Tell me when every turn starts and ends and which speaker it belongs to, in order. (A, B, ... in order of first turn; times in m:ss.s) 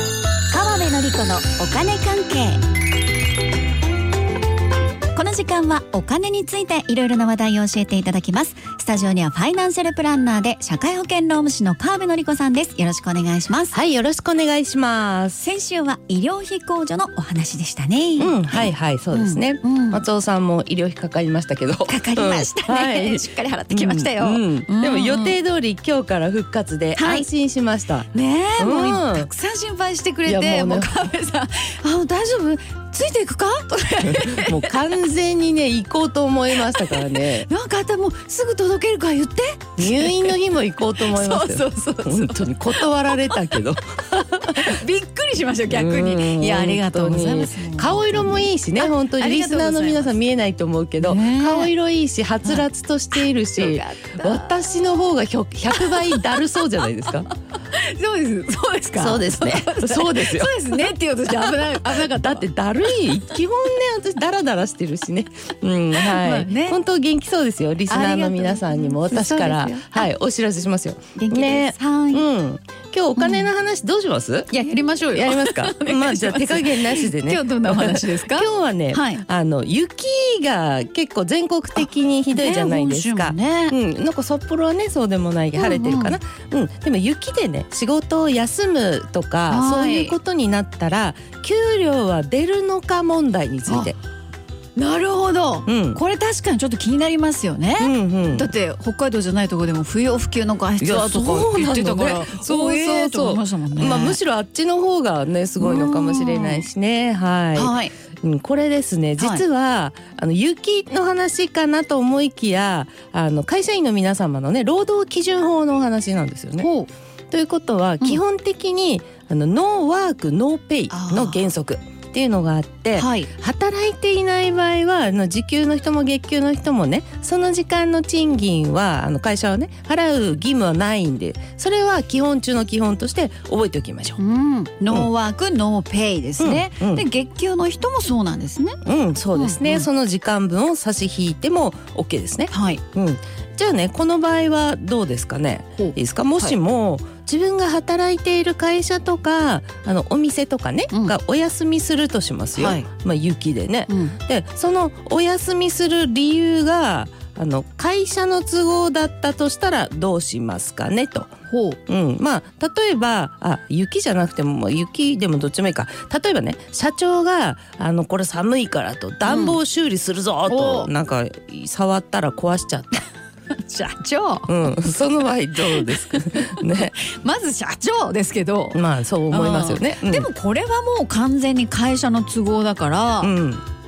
0:00.5-0:02.6 A
0:05.1-0:13.8 A
0:13.7-0:15.5 B
0:15.4-0:20.0 A
0:18.2-0:29.3 B
0:21.9-0:25.4 A
0:27.0-0:27.3 A
0:28.1-0:35.0 A
0:30.2-0:30.9 B
0:34.1-0:37.5 B
0:36.5-0:40.4 A
0:39.8-0:44.8 B
0:41.0-0:43.6 A
0:44.1-0:50.2 A
0:45.7-0:57.3 B
0:51.0-0:51.7 A
0:52.4-0:54.8 A
0:55.7-0:56.4 A
0:57.7-1:03.4 A
0:59.0-1:14.5 B
1:05.9-1:06.8 A
1:07.9-1:10.1 A
1:11.2-1:12.2 A
1:13.2-1:13.5 A
1:14.5-1:19.2 A
1:15.1-1:34.0 B
1:22.3-1:23.8 A
1:25.5-1:26.2 A
1:29.5-1:30.2 A
1:33.7-1:33.9 A
1:34.8-1:44.2 A
1:35.7-1:36.0 B
1:37.8-1:38.5 B
1:40.8-1:56.7 B
1:45.6-1:46.6 A
1:47.5-1:47.9 A
1:49.2-1:49.4 A
1:56.6-1:56.9 A
1:57.3-2:14.2 B
2:00.9-2:01.5 A
2:03.0-2:03.3 A
2:14.2-2:18.8 A
2:16.4-2:17.0 B
2:18.8-2:41.3 B
2:19.3-2:19.9 A
2:22.5-2:22.8 A
2:25.8-2:26.6 A
2:30.9-2:31.2 A
2:32.6-2:32.9 A
2:33.9-2:34.2 A
2:41.5-2:41.8 A
2:41.9-2:53.0 B
2:49.2-2:49.6 A
2:50.5-2:50.9 A
2:53.6-2:54.7 A
2:54.5-2:56.9 B
2:55.7-3:03.3 A
2:58.7-3:00.3 B
3:03.2-3:03.6 B